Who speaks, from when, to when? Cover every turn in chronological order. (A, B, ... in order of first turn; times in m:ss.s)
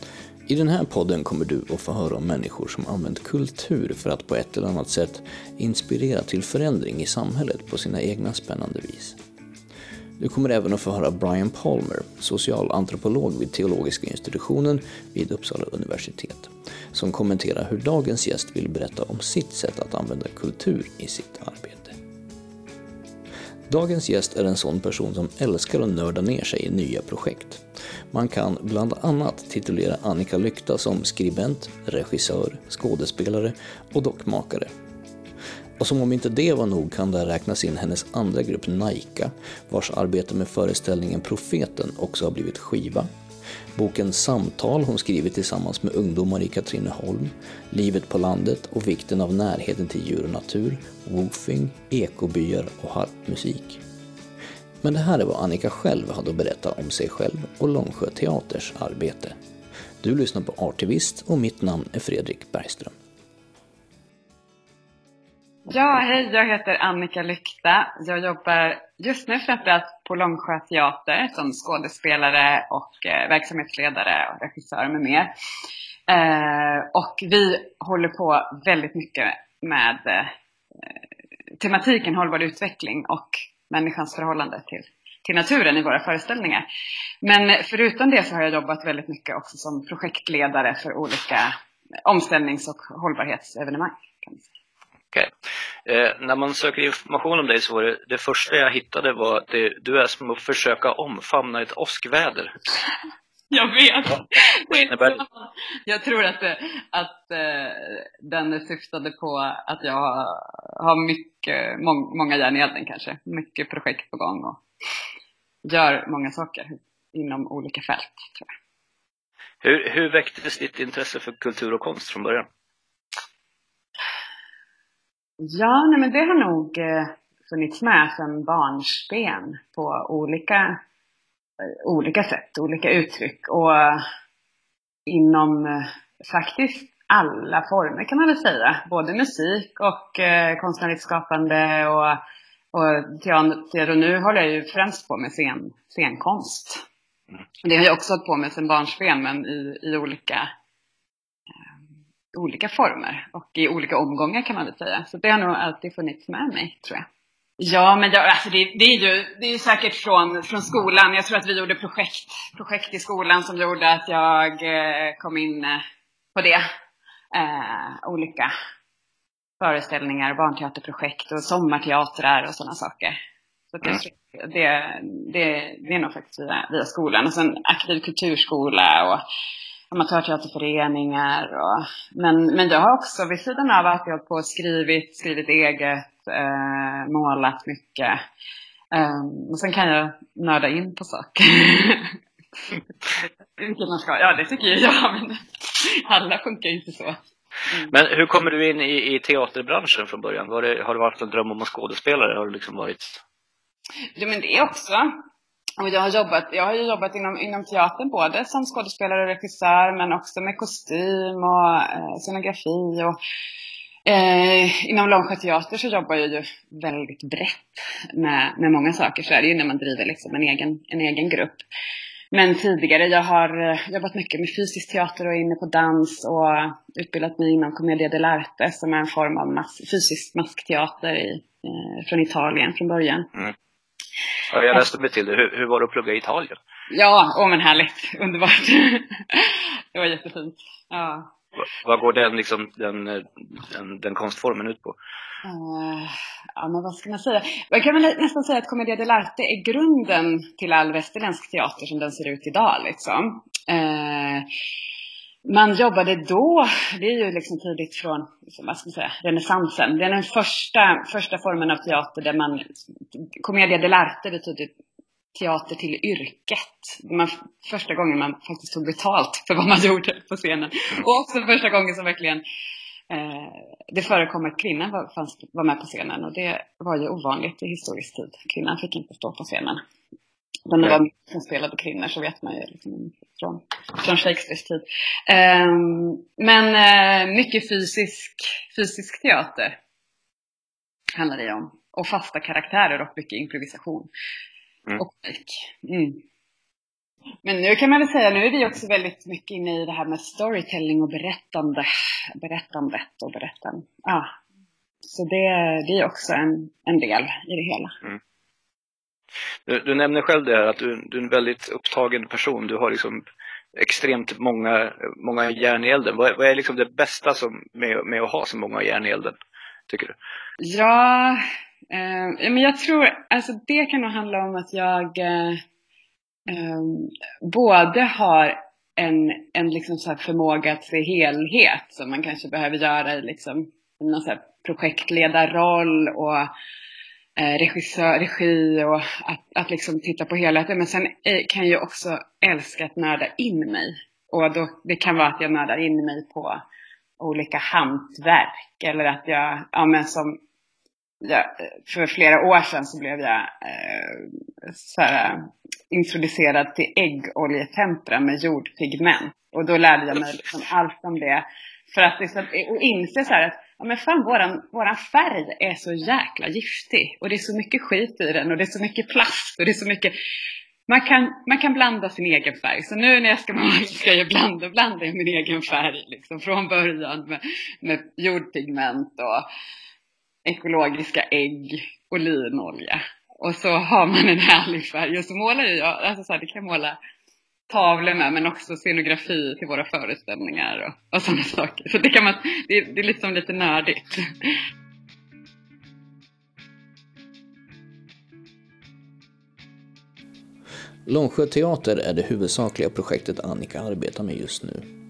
0:00.5-0:09.2 A
0:10.2-0:22.0 A
0:23.7-0:34.7 A
0:35.8-0:43.1 A
0:43.8-0:53.8 A
0:54.8-0:59.4 A
1:00.0-1:02.9 A
1:05.7-1:15.3 B
1:16.1-1:21.0 B
1:21.6-1:26.7 B
1:27.2-1:31.6 B
1:32.1-1:34.5 B
1:35.8-1:42.5 C
1:43.5-1:54.6 B
1:44.7-1:45.2 C
1:55.6-1:58.5 B
1:59.6-2:02.5 C
2:05.4-2:10.8 B
2:11.6-2:14.0 B
2:15.1-2:22.2 B
2:22.7-2:26.8 B
2:27.6-2:30.5 B
2:32.3-2:37.1 B
2:37.6-2:45.8 B
2:46.4-2:46.6 B
2:47.3-2:48.5 B
2:49.6-2:53.2 B
2:53.7-2:59.2 B
2:59.9-3:08.2 B
3:08.9-3:12.2 B
3:13.1-3:17.9 B
3:17.9-3:23.2 C
3:24.2-3:25.1 B
3:25.8-3:33.2 B
3:34.1-3:41.6 B
3:42.3-3:53.3 B
3:54.5-3:56.6 C
3:56.9-4:01.3 B
4:01.6-4:05.0 C
4:05.4-4:14.5 B
4:15.4-4:24.7 B
4:25.3-4:32.4 B
4:33.1-4:39.8 B
4:40.7-4:49.8 B
4:51.2-4:54.1 B
4:55.0-4:56.2 B
4:57.4-5:04.3 B
5:05.1-5:07.9 B
5:09.7-5:13.2 C
5:13.8-5:19.4 C
5:19.9-5:20.2 C
5:20.6-5:25.6 B
5:26.5-5:36.5 B
5:37.4-5:46.6 B
5:47.2-5:50.4 B
5:51.2-6:10.2 B
6:10.9-6:19.5 B
6:20.4-6:27.0 B
6:27.7-6:34.6 B
6:41.1-6:44.9 A